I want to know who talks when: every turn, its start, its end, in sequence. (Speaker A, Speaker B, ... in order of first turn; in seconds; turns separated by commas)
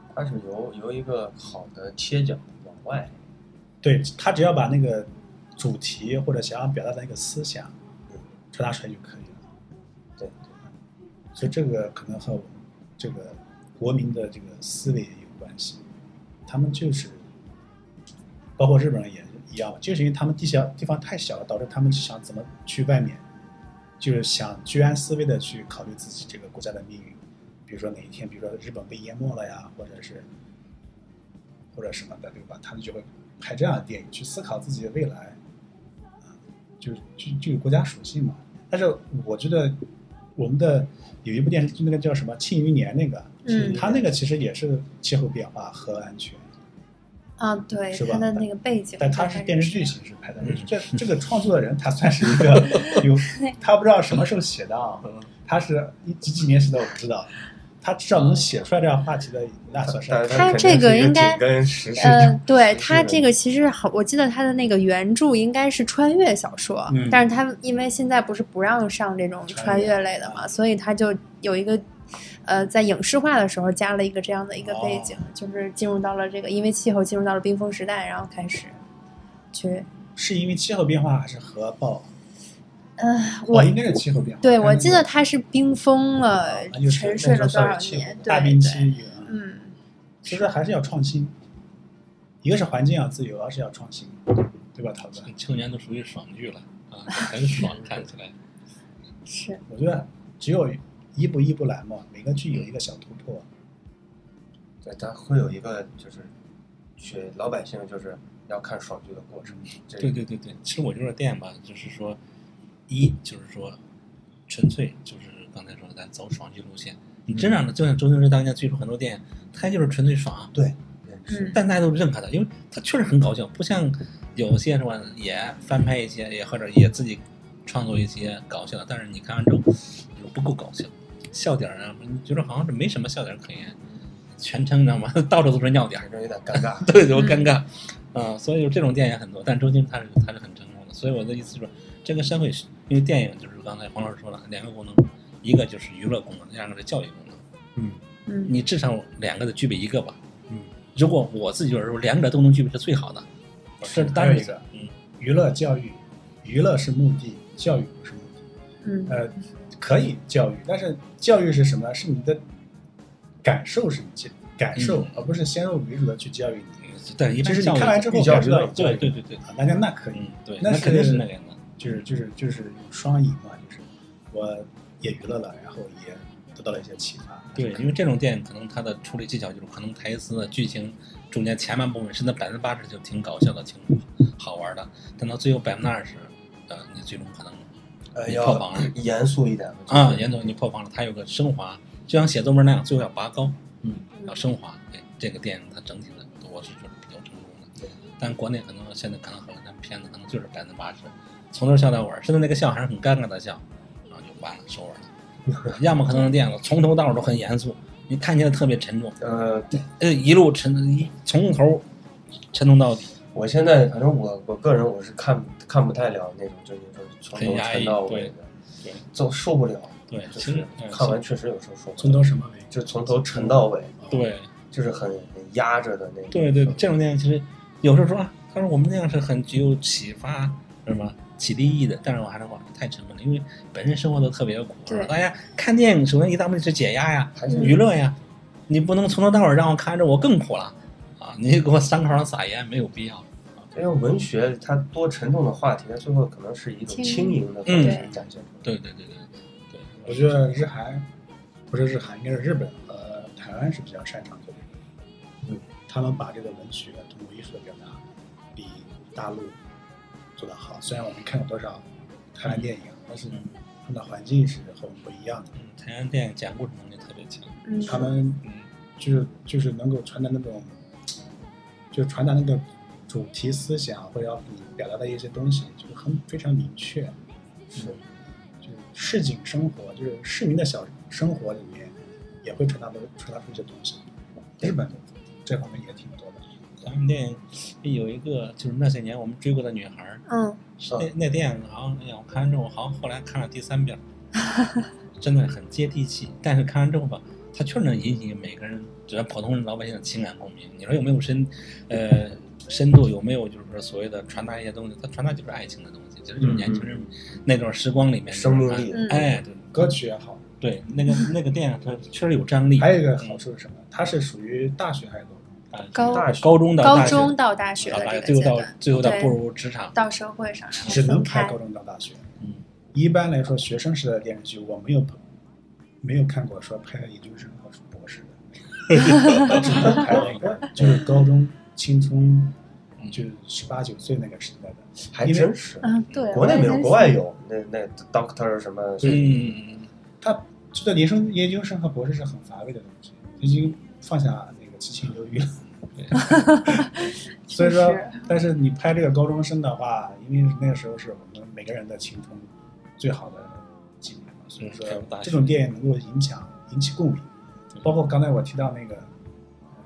Speaker A: 0.1-3.2, Speaker B: 3.8-7.8, Speaker B: 8.5-9.4, Speaker A: 10.2-10.5, Speaker B: 11.3-15.9, Speaker B: 16.4-17.3, Speaker B: 18.6-23.2, Speaker B: 24.0-30.3, Speaker B: 31.7-35.4, Speaker B: 36.2-39.8, Speaker B: 40.4-46.5, Speaker C: 43.4-43.8, Speaker C: 47.4-49.9, Speaker B: 47.9-48.4, Speaker B: 49.0-60.7, Speaker A: 60.0-63.2, Speaker C: 60.3-61.4, Speaker B: 62.0-62.3, Speaker C: 62.0-71.8, Speaker B: 66.9-67.2, Speaker B: 69.5-70.5, Speaker C: 72.4-78.8, Speaker B: 74.6-75.2, Speaker C: 79.5-79.9, Speaker B: 80.2-82.1, Speaker C: 83.0-83.8, Speaker B: 83.5-85.1, Speaker C: 84.4-89.7, Speaker B: 86.3-89.4, Speaker A: 88.1-88.4, Speaker B: 90.2-91.3, Speaker B: 92.4-95.3, Speaker D: 95.2-98.3, Speaker C: 99.3-99.6, Speaker B: 99.7-103.5, Speaker A: 104.8-106.3, Speaker A: 107.0-110.2, Speaker D: 110.0-112.2, Speaker D: 112.9-113.8, Speaker D: 114.5-120.5, Speaker A: 120.5-121.6, Speaker C: 121.3-121.6, Speaker D: 121.5-133.8, Speaker D: 134.4-147.4, Speaker A: 136.0-136.9, Speaker C: 137.1-137.4, Speaker C: 148.3-148.5, Speaker D: 148.4-150.2, Speaker D: 150.9-153.2, Speaker D: 153.8-154.9, Speaker B: 153.8-154.6, Speaker B: 155.2-158.4, Speaker C: 158.8-159.3, Speaker B: 159.1-162.4, Speaker B: 163.4-166.8, Speaker D: 164.8-165.2, Speaker D: 166.8-169.4, Speaker B: 167.3-171.3, Speaker A: 168.1-169.0, Speaker D: 170.1-171.7, Speaker B: 171.8-177.9, Speaker D: 177.5-187.7, Speaker A: 188.1-190.5, Speaker D: 188.2-188.9, Speaker D: 189.9-193.6, Speaker D: 194.2-205.1, Speaker D: 205.6-209.2, Speaker A: 209.2-209.9, Speaker D: 210.0-211.8, Speaker D: 212.5-213.1, Speaker A: 213.3-218.5, Speaker D: 217.3-219.0, Speaker A: 219.1-224.0, Speaker D: 220.1-221.2, Speaker B: 222.0-223.4, Speaker D: 224.1-224.5, Speaker A: 224.7-226.8, Speaker D: 226.3-238.2, Speaker A: 237.3-237.8, Speaker C: 237.5-237.8, Speaker D: 238.7-243.7, Speaker A: 243.7-248.7, Speaker C: 246.9-248.1, Speaker D: 247.7-248.1, Speaker D: 248.6-250.2, Speaker B: 250.0-251.1, Speaker B: 251.7-254.8, Speaker B: 255.9-258.0, Speaker B: 258.5-259.6, Speaker B: 260.4-265.5, Speaker D: 265.5-267.6, Speaker C: 267.6-268.1, Speaker B: 267.8-268.4, Speaker B: 269.0-270.8, Speaker B: 271.9-277.2, Speaker A: 277.7-278.0, Speaker B: 278.6-284.0, Speaker B: 284.6-286.5, Speaker D: 286.8-290.3, Speaker C: 290.3-290.6, Speaker D: 290.8-294.0, Speaker D: 295.2-309.9, Speaker A: 306.4-307.0, Speaker A: 308.3-309.4, Speaker C: 308.9-309.3, Speaker B: 309.7-310.4, Speaker D: 310.6-313.4, Speaker B: 312.8-315.6, Speaker D: 315.7-319.9, Speaker C: 315.9-319.4, Speaker A: 316.0-317.4, Speaker C: 319.9-321.6, Speaker B: 320.8-322.2, Speaker B: 322.9-325.2, Speaker B: 326.0-332.6, Speaker D: 328.9-329.6, Speaker A: 329.6-330.9, Speaker B: 333.1-335.5, Speaker A: 335.1-339.3, Speaker C: 335.8-337.2, Speaker D: 339.0-339.9, Speaker B: 340.2-345.6, Speaker D: 346.0-346.3, Speaker C: 346.1-348.2, Speaker B: 347.5-357.3, Speaker D: 354.6-355.6, Speaker B: 357.8-359.1